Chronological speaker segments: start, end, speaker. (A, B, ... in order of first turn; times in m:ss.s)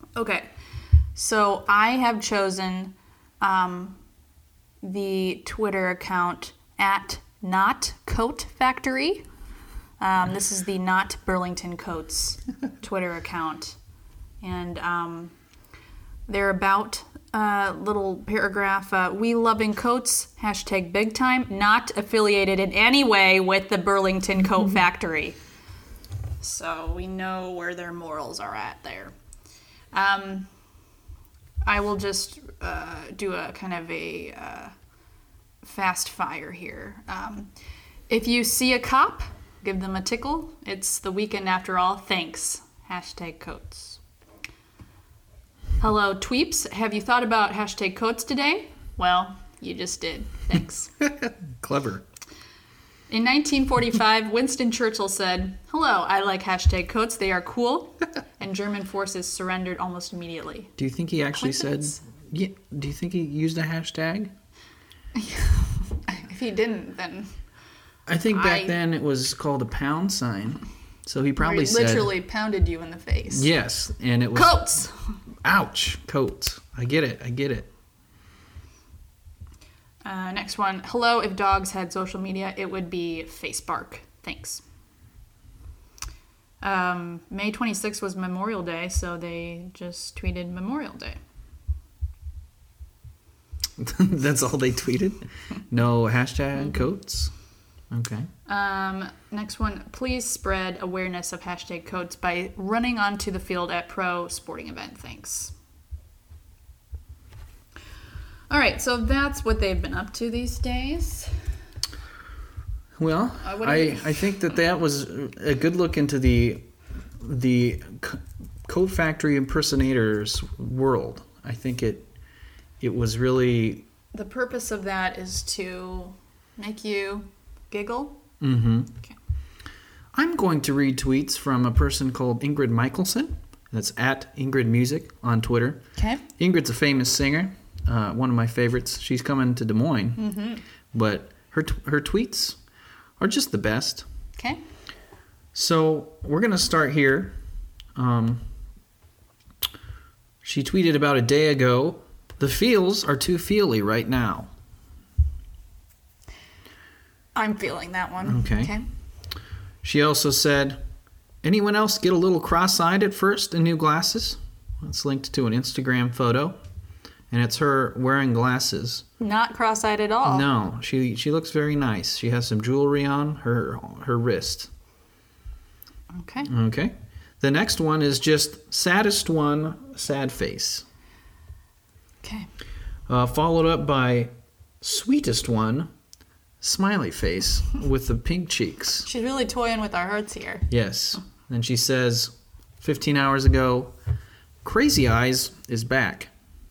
0:00.2-0:00.5 A
0:01.1-0:04.0 A
0:04.8-0:09.2 A
0:10.0-0:13.8 A
0:14.4-0:15.3 A
0:16.3-0:25.4 A
0:26.4-0:29.1 A
0:29.9-0:30.5 A
0:31.6-0:34.7 A
0:35.6-0:37.5 A
0:38.1-0:44.0 A
0:45.8-0:50.9 A
0:51.0-0:52.0 B
0:53.1-1:00.7 A
1:00.8-1:04.3 B
1:01.4-1:02.0 A
1:05.1-1:07.3 A
1:08.1-1:12.1 B
1:08.3-1:08.7 A
1:11.4-1:13.5 A
1:13.3-1:14.8 B
1:14.3-1:15.0 A
1:15.4-1:17.7 B
1:20.0-1:24.6 A
1:26.6-1:31.2 A
1:33.8-1:37.3 B
1:37.9-1:38.3 B
1:38.5-1:45.5 A
1:48.5-1:51.3 A
1:53.0-2:02.1 B
1:53.4-1:54.4 A
2:02.8-2:03.8 B
2:04.1-2:08.2 A
2:08.4-2:08.9 B
2:10.1-2:20.2 B
2:16.0-2:16.2 A
2:20.2-2:20.6 A
2:20.9-2:22.6 B
2:23.2-2:24.0 B
2:25.5-2:27.3 B
2:27.9-2:28.4 B
2:30.4-2:34.5 B
2:37.3-2:38.8 A
2:38.2-2:38.7 B
2:39.8-2:40.8 B
2:41.4-2:46.6 B
2:47.3-2:49.0 B
2:49.2-2:50.5 A
2:50.2-2:54.7 B
2:56.1-2:56.5 A
2:56.4-3:00.8 B
3:02.2-3:02.5 A
3:03.1-3:05.9 B
3:06.6-3:09.1 B
3:09.0-3:10.7 A
3:10.7-3:13.9 B
3:14.6-3:16.3 B